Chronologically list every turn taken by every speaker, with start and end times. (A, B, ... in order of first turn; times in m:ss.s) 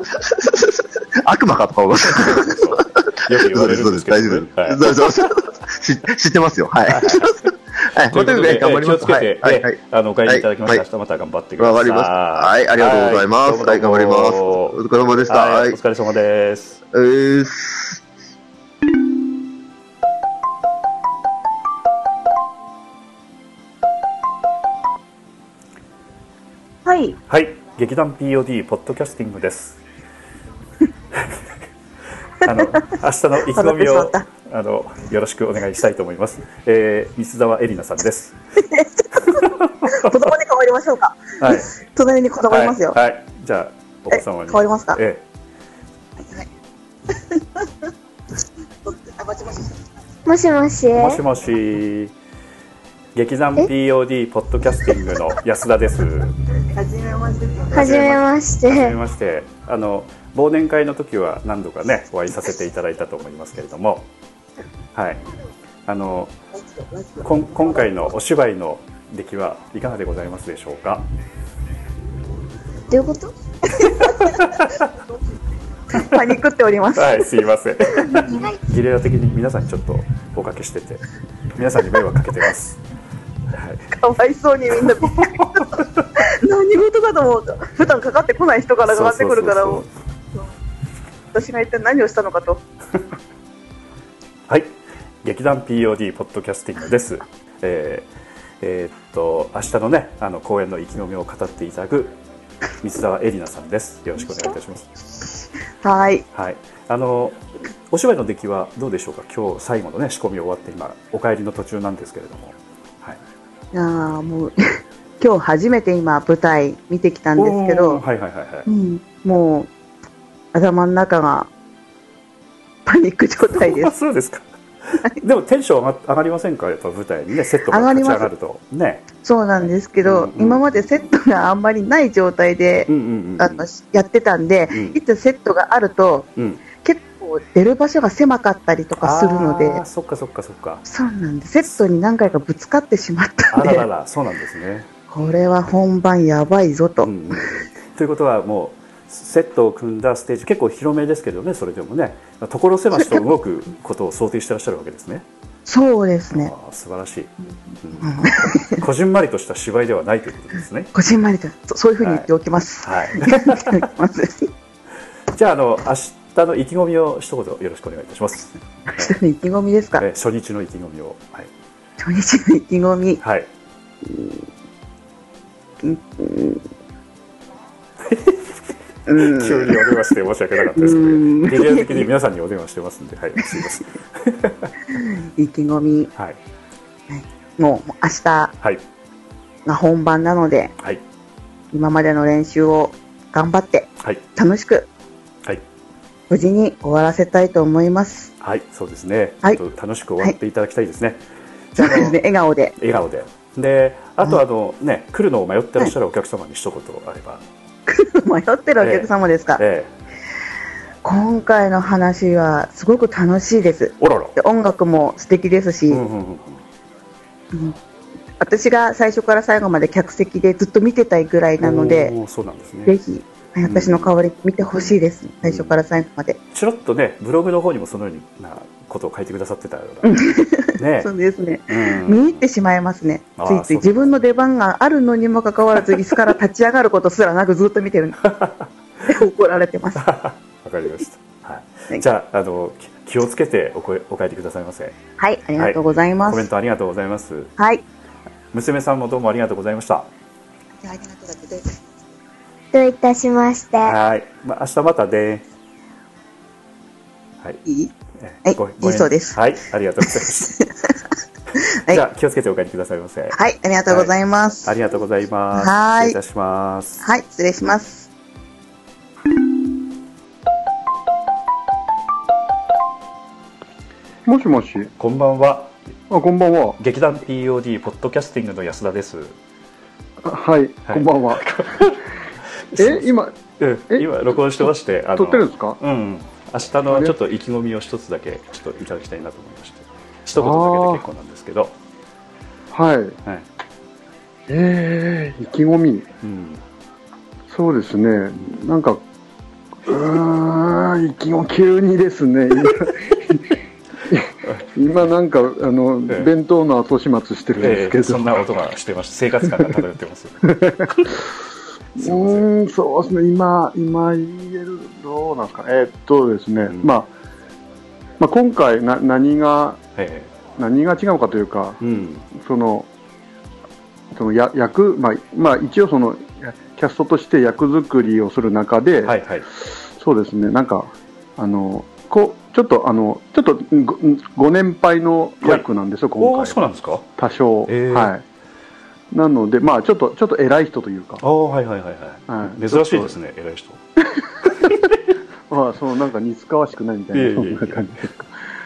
0:00.3-0:02.6 A
0:02.2-0:04.9 B
0:03.3-0:09.8 A
0:06.9-0:07.4 B
0:08.1-0:16.8 B
0:10.3-0:10.8 A
0:11.6-0:15.8 A
0:16.9-0:18.0 A
0:26.9-0:27.2 C
0:27.3-0:29.8 B
0:32.4-0:38.4 B
0:32.5-0:32.9 C
0:33.5-0:34.3 C
0:38.7-0:43.0 C
0:39.3-0:40.1 B
0:41.4-0:41.7 B
0:42.5-0:45.2 B
0:44.1-0:45.0 C
0:49.2-0:49.6 C
0:50.3-0:51.2 D
0:50.9-0:52.1 B
0:53.2-0:56.3 B
0:56.8-0:58.1 C
0:57.7-0:59.0 D
0:57.8-1:04.1 B
1:05.0-1:05.2 B
1:05.9-1:06.3 B
1:07.0-1:07.8 C
1:07.2-1:11.0 B
1:12.9-1:13.3 D
1:13.9-1:14.9 B
1:14.0-1:14.4 C
1:16.0-1:17.4 C
1:17.0-1:21.0 B
1:21.5-1:22.8 B
1:23.5-1:23.9 B
1:23.9-1:25.8 C
1:25.2-1:25.7 B
1:26.4-1:30.4 C
1:28.9-1:29.9 B
1:31.3-1:32.6 C
1:35.2-1:38.1 B
1:38.6-1:42.2 B
1:42.8-1:44.9 B
1:45.8-1:46.2 C
1:46.3-1:53.2 B
1:53.7-1:54.5 C
1:55.2-1:58.0 C
1:57.4-1:58.7 B
1:58.7-1:59.7 C
2:00.5-2:01.5 C
2:02.9-2:03.9 C
2:03.5-2:09.1 B
2:07.7-2:08.3 C
2:09.2-2:19.8 C
2:09.6-2:10.6 B
2:12.9-2:13.6 B
2:14.7-2:15.0 B
2:16.4-2:16.6 B
2:19.0-2:20.8 B
2:20.9-2:23.8 C
2:23.5-2:24.9 B
2:25.1-2:27.5 C
2:27.0-2:35.2 B
2:33.0-2:33.2 C
2:35.7-2:36.5 C
2:36.3-2:40.9 B
2:38.0-2:38.8 C
2:40.9-2:44.5 C
2:42.0-2:42.3 B
2:42.8-2:43.8 B
2:45.3-2:49.1 B
2:49.0-2:50.0 C
2:50.0-2:51.5 B
2:52.0-2:53.2 C
2:53.2-2:53.5 B
2:55.8-2:56.6 C
2:58.1-2:58.4 B
2:59.1-3:00.0 C
2:59.2-3:04.7 B
3:00.8-3:02.1 C
3:05.4-3:06.1 C
3:07.1-3:08.5 C
3:09.7-3:10.7 C
3:11.7-3:14.9 C
3:16.3-3:18.3 C
3:18.4-3:21.2 B
3:21.8-3:22.2 B
3:21.8-3:22.7 C
3:22.8-3:27.4 B
3:27.9-3:29.6 C
3:28.8-3:29.9 B
3:31.0-3:36.0 C
3:34.0-3:34.3 B
3:35.9-3:36.6 B
3:37.5-3:37.8 C
3:38.4-3:42.1 C
3:41.6-3:43.0 B
3:42.9-3:46.4 C
3:43.6-3:44.1 B
3:45.4-3:45.8 B
3:46.5-3:50.2 B
3:50.0-3:58.2 C
3:50.8-3:51.1 B
3:51.7-3:52.5 B
3:53.4-3:54.2 B
3:58.3-3:58.7 B
3:59.1-4:00.1 C
4:00.0-4:05.0 B
4:05.2-4:06.5 C
4:05.6-4:07.5 B
4:07.6-4:07.8 C
4:08.5-4:10.1 B
4:10.8-4:11.8 C
4:12.7-4:14.0 D
4:13.8-4:15.4 B
4:17.6-4:17.9 C
4:18.2-4:20.5 B
4:18.4-4:19.4 C
4:21.9-4:23.4 B
4:23.3-4:25.0 C
4:23.9-4:27.1 B
4:25.5-4:26.2 C
4:27.0-4:28.1 C
4:34.3-4:34.9 E
4:35.0-4:35.8 B
4:36.1-4:36.8 E
4:36.8-4:39.4 B
4:40.2-4:41.5 E
4:40.9-4:42.0 B
4:42.7-4:51.7 B
4:42.8-4:43.3 E
4:43.9-4:45.8 E
4:46.9-4:47.2 E
4:50.4-4:51.0 E
4:52.7-4:53.2 E
4:54.5-4:56.0 E
4:56.2-4:56.6 B
4:57.5-4:59.0 E
4:59.9-5:03.4 E
5:04.1-5:08.3 E
5:07.6-5:11.2 B
5:10.5-5:11.1 E
5:12.0-5:12.5 B
5:12.0-5:17.1 E
5:18.2-5:19.8 E
5:20.0-5:20.3 B
5:20.6-5:21.8 E
5:21.8-5:22.3 B
5:22.3-5:22.9 E
5:24.1-5:29.2 E
5:29.0-5:29.5 B
5:30.0-5:36.6 E
5:36.2-5:37.1 B
5:37.2-5:38.2 E
5:37.7-5:38.1 B
5:39.1-5:41.2 E
5:41.2-5:43.8 B
5:42.3-5:43.2 E
5:44.5-5:44.7 E
5:44.6-5:45.0 B
5:45.5-5:48.3 E
5:47.1-5:48.1 B